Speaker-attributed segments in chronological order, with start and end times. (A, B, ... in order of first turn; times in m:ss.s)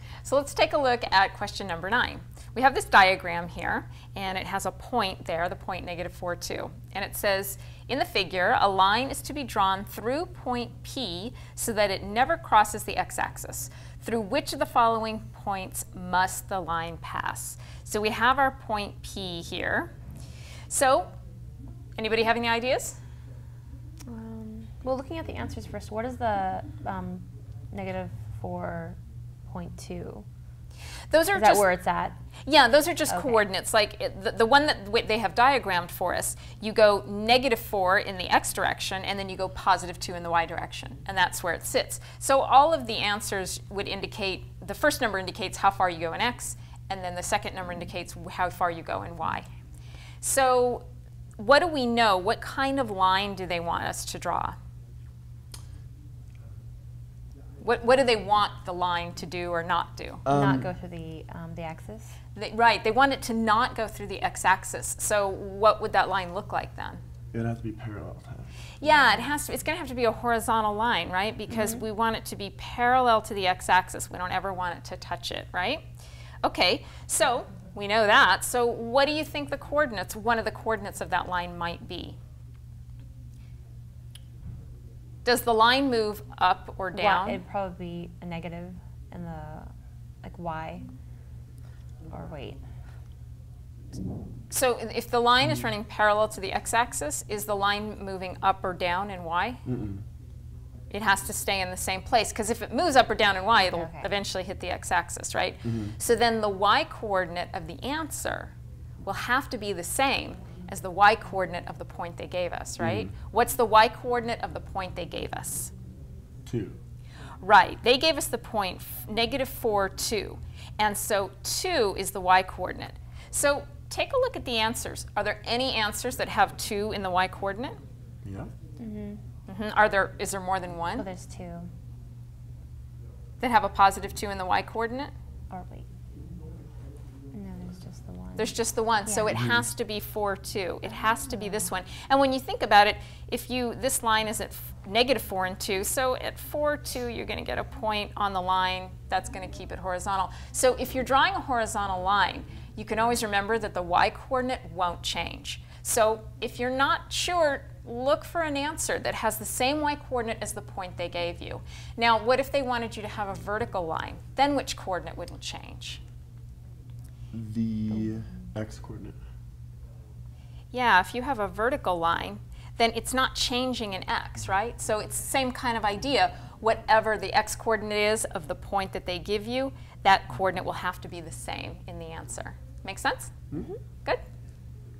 0:00.2-0:19.9 A
0:20.7-0:21.1 A
0:22.0-0:23.0 A
0:24.1-0:30.2 B
0:31.1-0:31.7 A
0:31.3-0:32.2 B
0:32.4-0:49.5 A
0:33.1-0:33.4 B
0:50.2-0:50.8 A
0:51.4-0:54.5 A
0:57.6-1:00.2 A
1:00.2-1:00.7 C
1:00.3-1:02.2 B
1:02.3-1:07.0 A
1:07.3-1:08.5 C
1:08.8-1:15.8 A
1:08.8-1:09.3 B
1:16.4-1:22.2 A
1:25.2-1:27.4 A
1:26.9-1:29.7 B
1:30.2-1:30.8 B
1:32.1-1:32.6 B
1:34.5-1:39.6 A
1:39.6-1:40.0 C
1:40.9-1:55.7 A
1:43.6-1:44.1 B
1:45.6-1:45.9 C
1:52.8-1:53.1 C
1:56.4-1:56.8 C
1:57.4-2:07.8 A
2:08.2-2:08.5 C
2:08.8-2:09.2 B
2:09.5-2:11.0 A
2:10.9-2:11.7 B
2:13.4-2:15.1 A
2:15.5-2:15.9 B
2:17.3-2:19.4 B
2:18.4-2:46.0 A
2:19.4-2:19.6 C
2:21.3-2:21.6 B
2:47.3-2:49.2 C
2:50.7-3:03.3 A